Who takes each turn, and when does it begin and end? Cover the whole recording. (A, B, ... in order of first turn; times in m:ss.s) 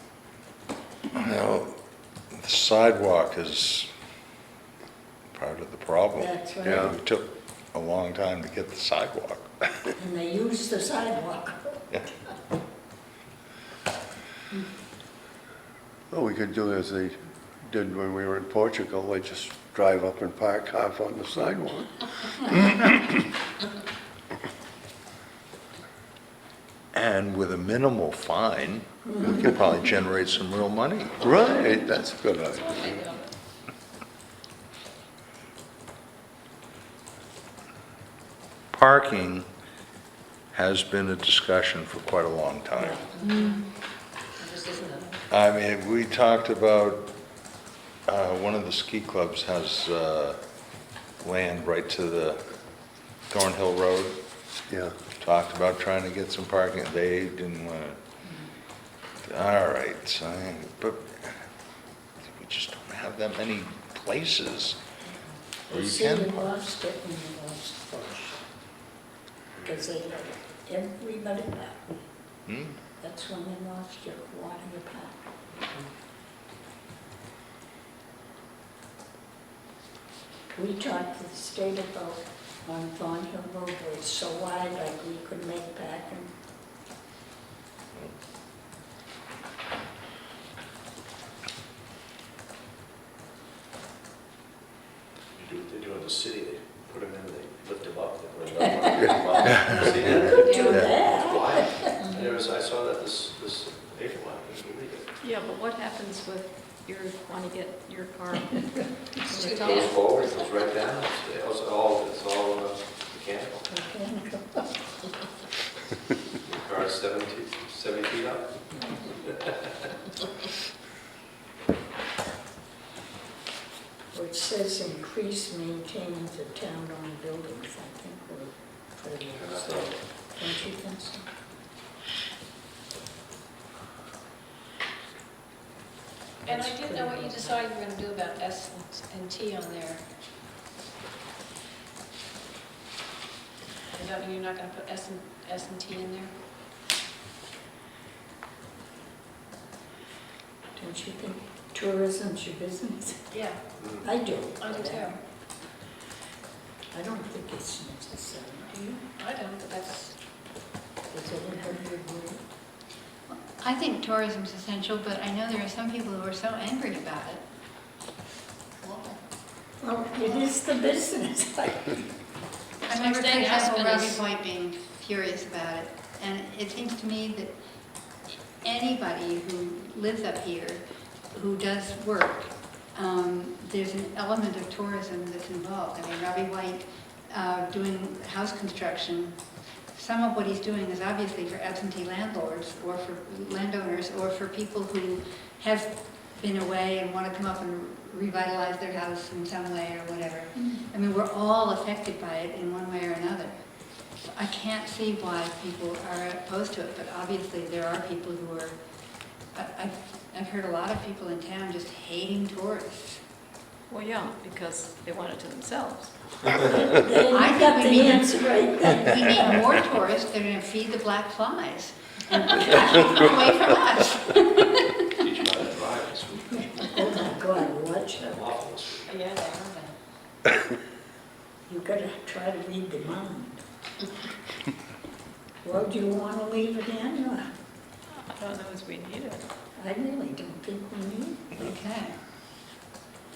0:01.1-0:01.8 A
0:02.3-0:03.9 A
0:05.3-0:09.9 A
0:06.2-0:06.9 B
0:06.6-0:06.9 C
0:10.0-0:11.9 B
0:16.1-0:23.2 C
0:26.9-0:31.2 A
0:29.1-0:29.4 B
0:31.2-0:33.2 C
0:32.5-0:33.3 D
0:38.7-0:39.5 A
0:40.5-0:43.0 A
0:42.8-0:43.6 B
0:43.2-0:43.6 E
0:44.5-0:45.0 D
0:44.6-0:45.0 B
0:45.3-0:47.1 A
0:48.1-0:50.4 A
0:51.2-0:52.4 A
0:53.2-0:54.2 A
0:54.7-0:54.9 C
0:55.2-0:58.0 A
0:59.2-1:01.4 A
1:02.2-1:04.8 A
1:05.6-1:08.4 B
1:05.7-1:06.5 A
1:09.6-1:09.8 F
1:09.6-1:12.0 B
1:12.5-1:12.8 A
1:13.0-1:15.2 B
1:20.5-1:26.3 B
1:35.3-1:45.1 F
1:39.5-1:41.0 A
1:39.6-1:41.1 D
1:40.0-1:42.1 B
1:45.2-1:50.0 G
1:49.3-1:49.9 D
1:49.6-1:53.6 F
1:53.7-1:54.7 B
1:56.4-1:58.6 F
1:58.7-1:59.0 B
1:59.4-1:59.7 F
2:04.1-2:11.3 B
2:09.3-2:10.0 F
2:16.4-2:17.6 B
2:16.4-2:20.0 D
2:23.9-2:26.3 D
2:30.8-2:33.4 B
2:33.3-2:33.6 D
2:33.8-2:34.0 F
2:34.0-2:35.2 B
2:34.6-2:35.2 D
2:36.9-2:38.9 B
2:38.8-2:40.1 D
2:41.1-2:42.4 B
2:43.3-2:47.4 E
2:48.8-2:49.2 E
2:49.8-2:52.1 B
2:52.8-2:57.5 E
2:53.0-2:54.2 D
2:58.6-3:09.4 E
3:09.9-3:23.6 E
3:24.2-3:28.8 E
3:29.5-3:33.2 E
3:33.9-3:36.1 G
3:36.7-3:39.6 B
3:37.3-3:45.0 E
3:45.2-3:47.3 F
3:46.6-3:48.3 B
3:48.1-3:49.2 F
3:49.0-3:50.0 D
3:51.7-3:53.6 B
3:55.6-3:57.4 B
3:58.1-3:59.4 G
3:59.8-4:01.5 B
4:01.6-4:02.2 E